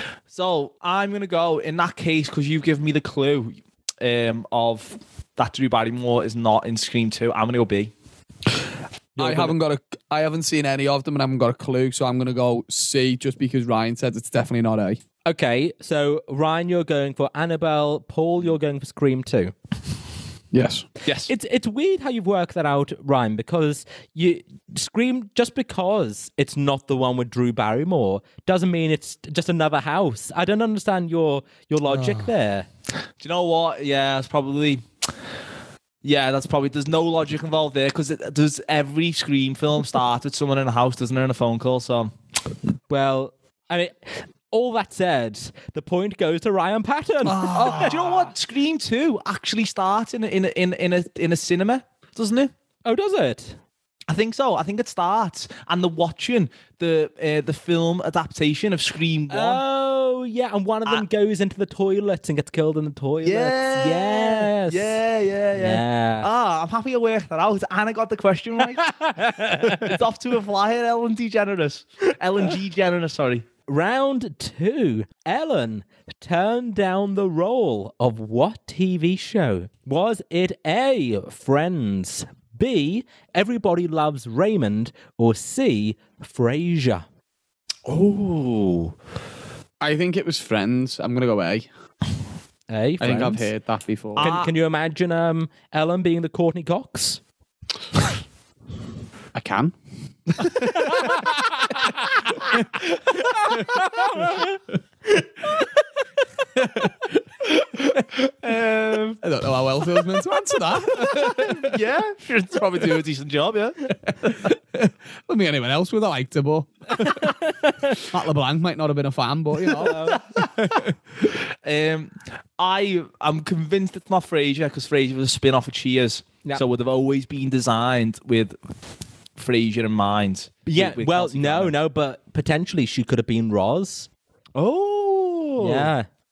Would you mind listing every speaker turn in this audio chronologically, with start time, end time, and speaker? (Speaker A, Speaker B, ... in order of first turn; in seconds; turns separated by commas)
Speaker A: 0.3-7.9, Speaker B: 9.2-9.6, Speaker C: 9.2-15.0, Speaker B: 15.2-19.5, Speaker C: 20.5-20.9, Speaker A: 21.0-21.3, Speaker B: 21.3-32.7, Speaker A: 33.2-34.8, Speaker A: 36.0-42.1, Speaker B: 42.9-47.9, Speaker C: 47.3-48.2, Speaker A: 47.3-52.5, Speaker B: 52.8-53.6, Speaker A: 54.1-59.6, Speaker B: 59.3-65.0, Speaker A: 63.2-73.5, Speaker B: 65.6-66.3, Speaker B: 68.9-70.0, Speaker B: 73.7-87.0, Speaker A: 87.9-88.9, Speaker C: 89.8-91.7, Speaker B: 92.7-93.5, Speaker C: 93.0-94.3, Speaker A: 94.2-94.5, Speaker B: 94.2-97.2, Speaker C: 99.3-99.8, Speaker B: 103.8-104.3, Speaker A: 107.6-109.2, Speaker C: 109.2-111.5, Speaker A: 110.9-113.9, Speaker C: 114.2-117.3, Speaker B: 117.0-118.0, Speaker C: 118.0-120.9, Speaker B: 119.8-120.2, Speaker A: 119.9-128.6, Speaker A: 129.3-131.7, Speaker B: 130.7-134.1, Speaker A: 134.6-135.9, Speaker B: 135.6-136.1